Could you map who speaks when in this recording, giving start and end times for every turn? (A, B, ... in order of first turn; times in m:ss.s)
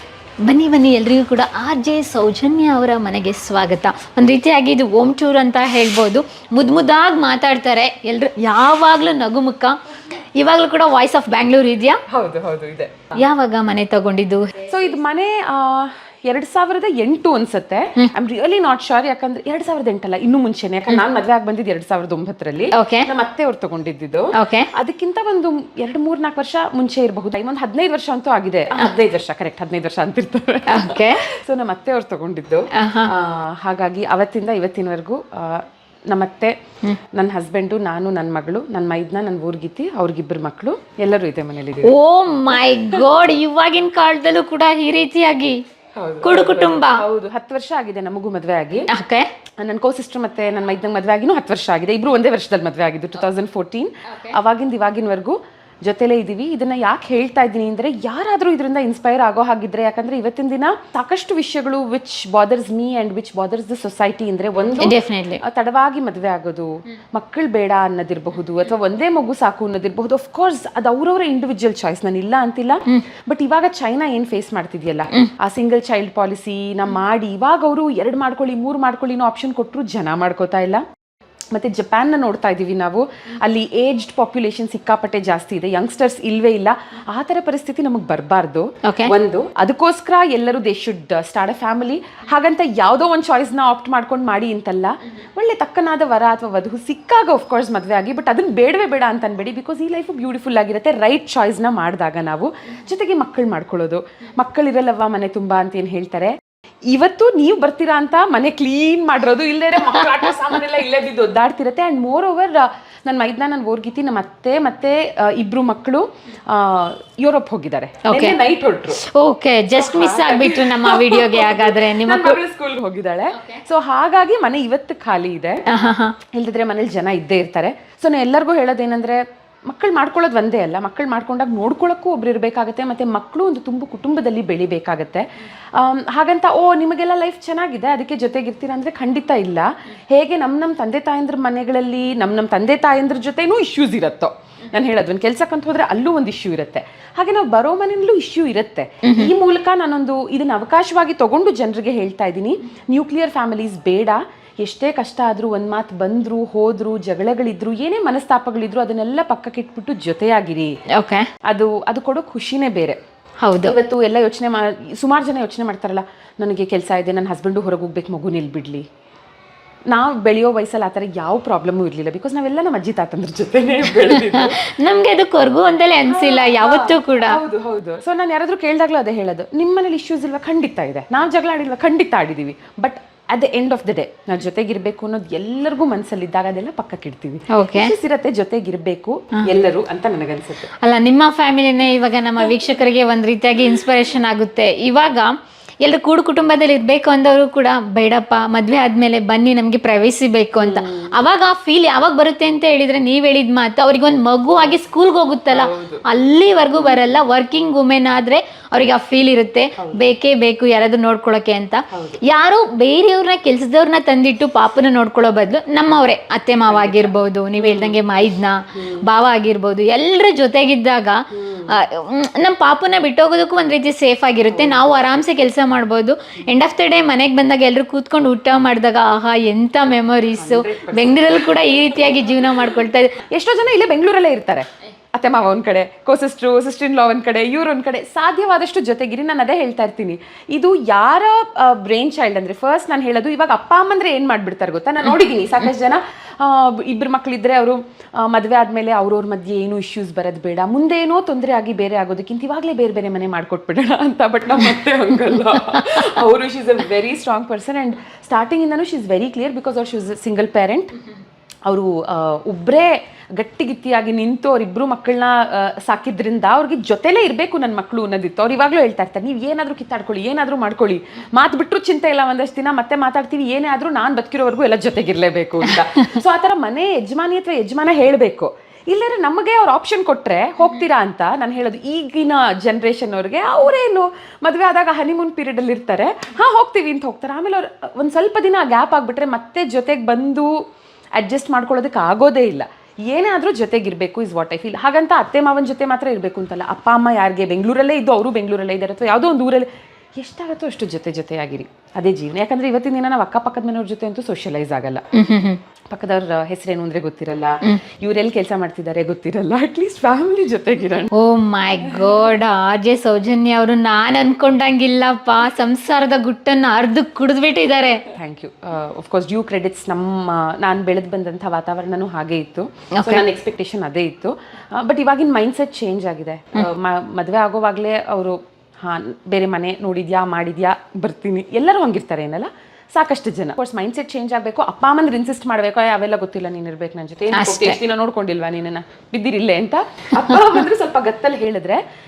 0:00.4-0:09.8 A
0:10.4-0:12.0 A
0:12.1-0:13.2 B
0:13.2-0:14.5 A
0:14.6-0:36.5 B
0:22.7-0:23.1 A
0:24.4-0:24.7 A
0:30.7-0:31.2 A
0:32.7-0:33.1 A
0:37.1-0:41.9 B
0:41.8-0:45.6 A
0:45.9-0:48.9 B
0:46.2-0:47.0 A
0:48.9-0:49.3 A
0:49.6-1:20.8 B
1:04.8-1:05.4 A
1:21.5-1:46.4 B
1:28.9-1:29.1 A
1:46.9-1:59.0 B
1:58.1-1:58.4 A
1:59.0-2:02.4 A
1:59.7-2:05.6 B
2:05.7-2:06.1 A
2:06.3-2:40.7 B
2:29.0-2:29.3 A
2:40.9-2:41.3 A
2:41.5-2:43.0 B
2:43.4-2:43.8 A
2:43.6-2:48.8 B
2:49.9-2:54.6 B
2:54.0-2:57.4 A
2:56.0-3:10.7 B
3:07.5-3:07.9 A
3:10.8-3:53.2 A
3:20.6-3:21.2 B
3:25.5-3:26.0 B
3:29.8-3:30.0 B
3:31.9-3:32.2 B
3:36.7-3:38.2 B
3:38.7-3:39.1 B
3:41.3-3:41.8 B
3:44.5-3:44.9 B
3:50.4-3:52.0 B
3:53.2-4:21.0 B
4:21.6-4:50.5 B
4:51.1-5:05.0 B
5:05.1-5:05.6 A
5:05.9-5:11.1 B
5:11.1-5:18.0 A
5:18.1-5:41.8 B
5:37.3-5:37.8 A